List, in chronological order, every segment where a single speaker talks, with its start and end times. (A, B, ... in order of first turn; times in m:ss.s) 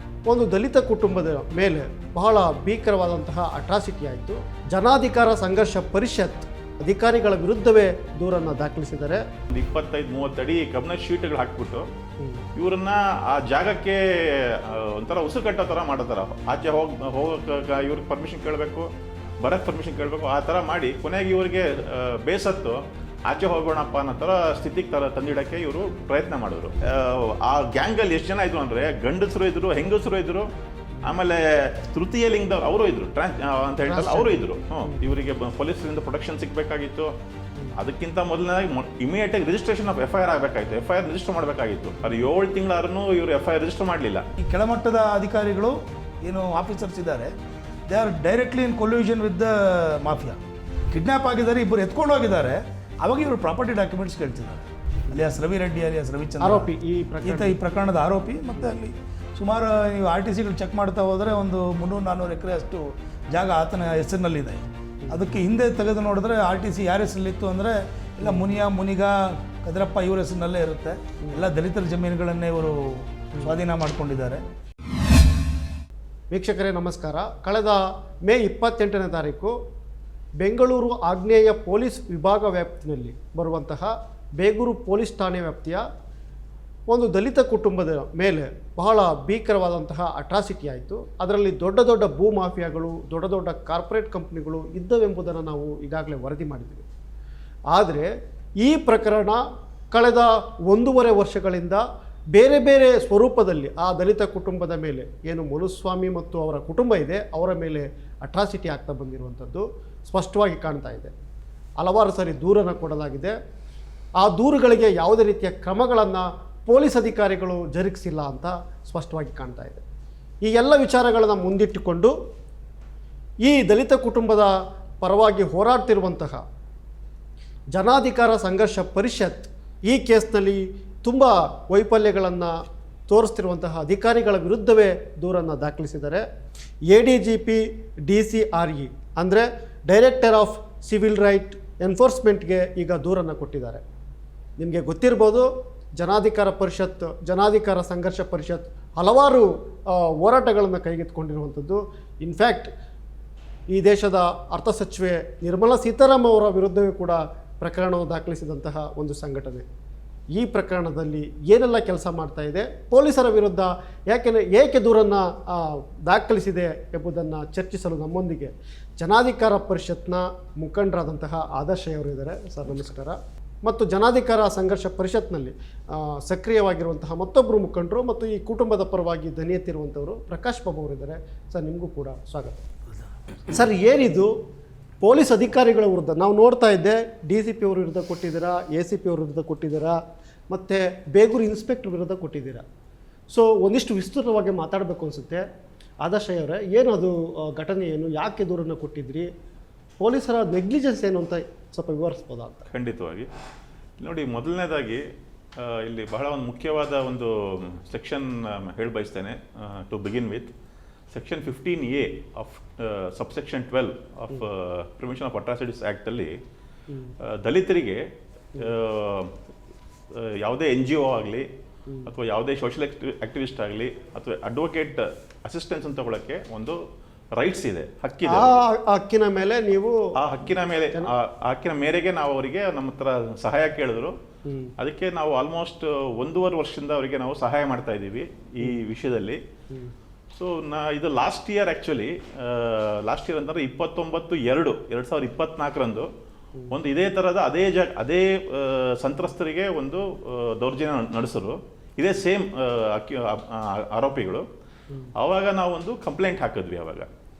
0:00.3-0:09.2 A
0:09.5-0:11.8 B
0:12.6-0:30.5 B
0:31.0-0:37.1 B
0:33.8-0:35.0 A
0:37.8-0:44.2 B
0:44.4-0:47.3 C
0:47.9-0:56.7 C
0:56.4-0:57.6 A
0:57.2-1:14.4 C
1:05.0-1:05.4 A
1:08.2-1:08.5 A
1:16.3-1:19.5 A
1:20.4-1:25.8 A
1:26.9-1:36.8 A
1:37.7-1:38.1 A
1:38.6-1:51.1 A
1:51.8-1:53.4 A
1:54.2-1:59.8 A
2:00.4-2:02.1 A
2:03.4-2:06.4 A
2:07.7-2:16.2 A
2:16.9-2:23.8 A
2:24.6-2:32.7 A
2:33.7-2:39.6 A
2:40.3-3:02.6 A
3:03.5-3:04.3 A
3:05.0-3:12.6 A
3:13.3-3:15.4 A
3:16.0-3:19.3 A
3:20.0-3:22.7 A
3:22.7-3:23.3 B
3:24.0-3:25.0 B
3:25.6-3:30.5 B
3:31.1-3:36.4 B
3:37.2-3:38.0 B
3:38.6-3:39.3 B
3:40.1-3:41.5 B
3:42.0-3:46.8 B
3:47.4-3:48.6 B
3:48.3-3:50.0 A
3:50.2-3:54.2 B
3:54.8-3:59.4 B
4:00.3-4:06.1 B
4:06.7-4:14.4 B
4:15.2-4:17.1 B